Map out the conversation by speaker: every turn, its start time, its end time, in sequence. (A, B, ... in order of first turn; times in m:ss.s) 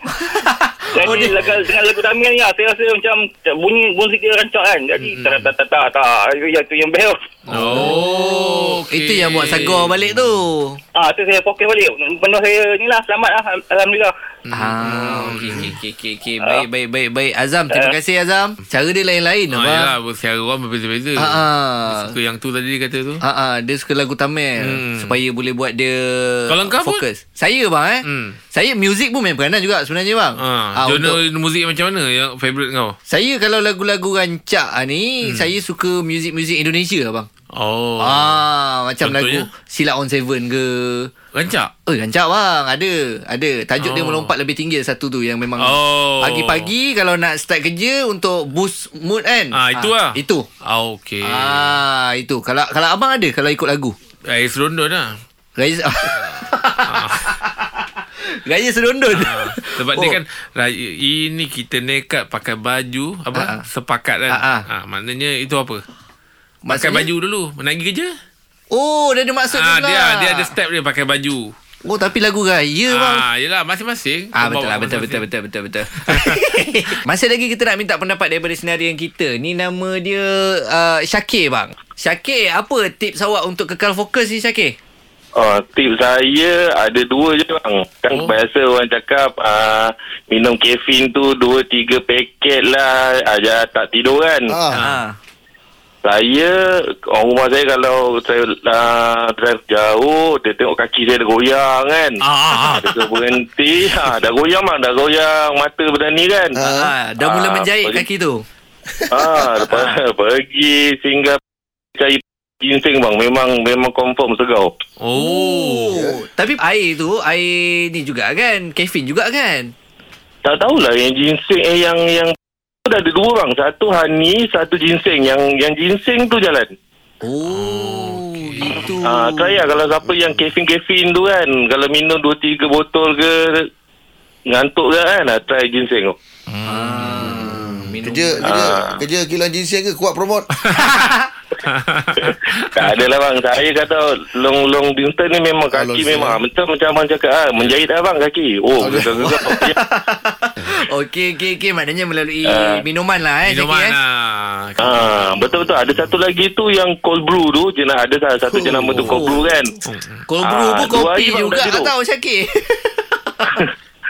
0:00.1-0:01.4 A
0:00.9-0:07.2 B
0:01.0-0:01.6 C
0:05.0-0:05.5 C
0:07.5-0:10.8 A
0:07.5-0:10.0 C
0:11.0-0:14.1 B
0:14.5-0:15.8 C
0:14.5-0:19.9 A
0:17.7-0:18.0 B
0:19.5-0:23.2 C
0:21.2-0:22.1 A
0:23.2-0:31.2 A
0:24.6-0:25.2 C
0:26.5-0:27.0 C
0:28.0-0:28.4 C
0:30.4-0:33.0 C
0:33.1-0:37.3 A
0:35.2-0:35.5 C
0:37.5-0:38.4 C
0:38.0-0:41.1 A
0:39.0-0:39.5 C
0:41.3-0:41.7 C
0:41.9-0:50.4 A
0:43.8-0:44.3 C
0:45.6-0:46.7 C
0:49.5-0:51.8 C
0:51.2-0:54.0 A
0:54.3-0:55.1 C
0:55.6-0:57.8 A
0:56.2-0:57.3 C
0:58.5-1:00.2 A
0:59.1-1:05.8 C
1:03.4-1:03.6 A
1:04.3-1:04.6 A
1:06.7-1:07.1 A
1:06.7-1:08.2 C
1:08.7-1:10.5 A
1:09.5-1:11.5 C
1:11.9-1:13.3 A
1:12.9-1:15.3 C
1:14.4-1:24.8 A
1:16.1-1:16.3 C
1:25.4-1:34.5 D
1:34.5-1:34.8 E
1:34.8-1:35.2 A
1:36.0-1:46.6 D
1:42.2-1:42.9 A
1:46.6-1:46.9 E
1:46.6-1:48.4 A
1:47.2-1:48.0 D
1:49.0-1:49.7 E
1:49.1-1:51.4 D
1:52.0-1:54.7 D
1:55.0-1:56.0 C
1:55.1-1:59.7 A
1:56.0-1:56.2 E
2:00.4-2:06.7 D
2:07.2-2:09.6 A
2:07.5-2:09.0 C
2:09.0-2:13.7 D
2:14.5-2:16.2 D
2:16.5-2:17.6 C
2:16.7-2:18.6 A
2:17.2-2:20.5 E
2:18.4-2:19.0 D
2:20.6-2:20.9 C
2:20.7-2:21.3 A
2:21.6-2:22.9 C
2:22.8-2:29.8 D
2:25.7-2:26.4 E
2:28.8-2:29.2 E
2:29.0-2:34.0 A
2:32.5-2:32.8 D
2:33.5-2:34.9 C
2:34.8-2:39.7 D
2:38.6-2:39.2 E
2:38.9-2:39.5 A
2:39.9-2:40.2 C
2:40.3-2:43.6 A
2:40.4-2:41.9 D